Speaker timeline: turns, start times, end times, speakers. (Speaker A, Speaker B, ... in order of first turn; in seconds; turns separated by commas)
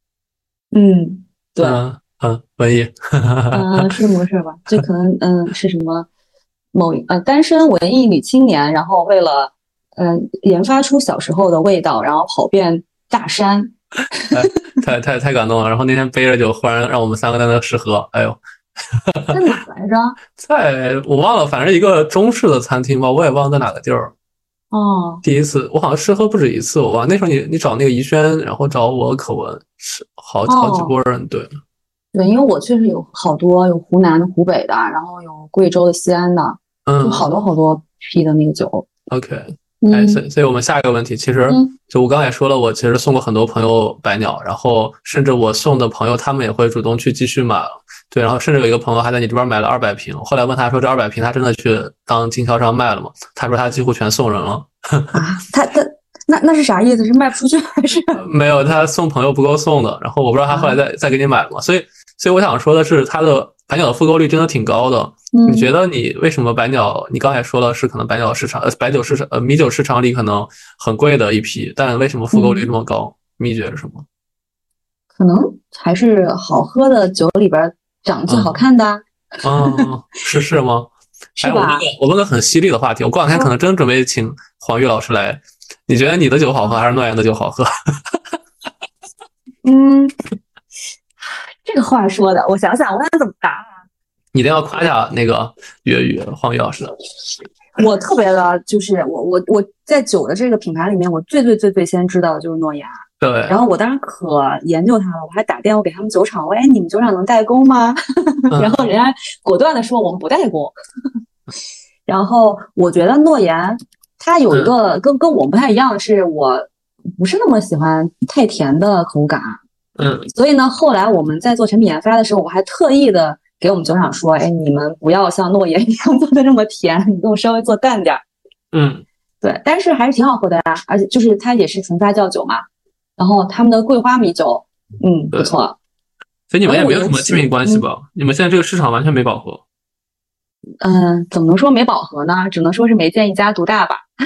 Speaker A: 0.7-1.8, Speaker B: 1.6-3.9, Speaker A: 3.5-6.1, Speaker A: 6.7-14.6, Speaker B: 14.3-19.4, Speaker A: 19.3-20.2, Speaker B: 20.4-24.1, Speaker A: 24.7-25.2, Speaker B: 25.2-31.6, Speaker A: 30.5-30.9, Speaker A: 32.1-38.9, Speaker B: 36.9-37.3, Speaker B: 39.1-55.2, Speaker A: 39.8-40.2, Speaker A: 41.5-41.7, Speaker A: 55.1-58.2, Speaker B: 58.1-74.0, Speaker A: 60.5-60.8, Speaker A: 65.3-65.7, Speaker A: 72.3-72.7, Speaker A: 75.2-79.9, Speaker B: 78.3-78.6, Speaker B: 79.4-80.9, Speaker A: 81.4-81.9, Speaker B: 81.4-88.2, Speaker A: 89.6-90.1, Speaker A: 91.6-93.7, Speaker B: 94.3-96.9, Speaker A: 97.8-110.7, Speaker B: 103.2-103.6, Speaker B: 108.5-108.9, Speaker A: 112.1-119.6, Speaker B: 120.0-120.3, Speaker A: 120.3-128.2, Speaker B: 128.7-129.0, Speaker A: 129.4-132.6, Speaker A: 133.2-135.8, Speaker B: 136.5-139.6, Speaker A: 136.6-137.8, Speaker A: 140.8-144.1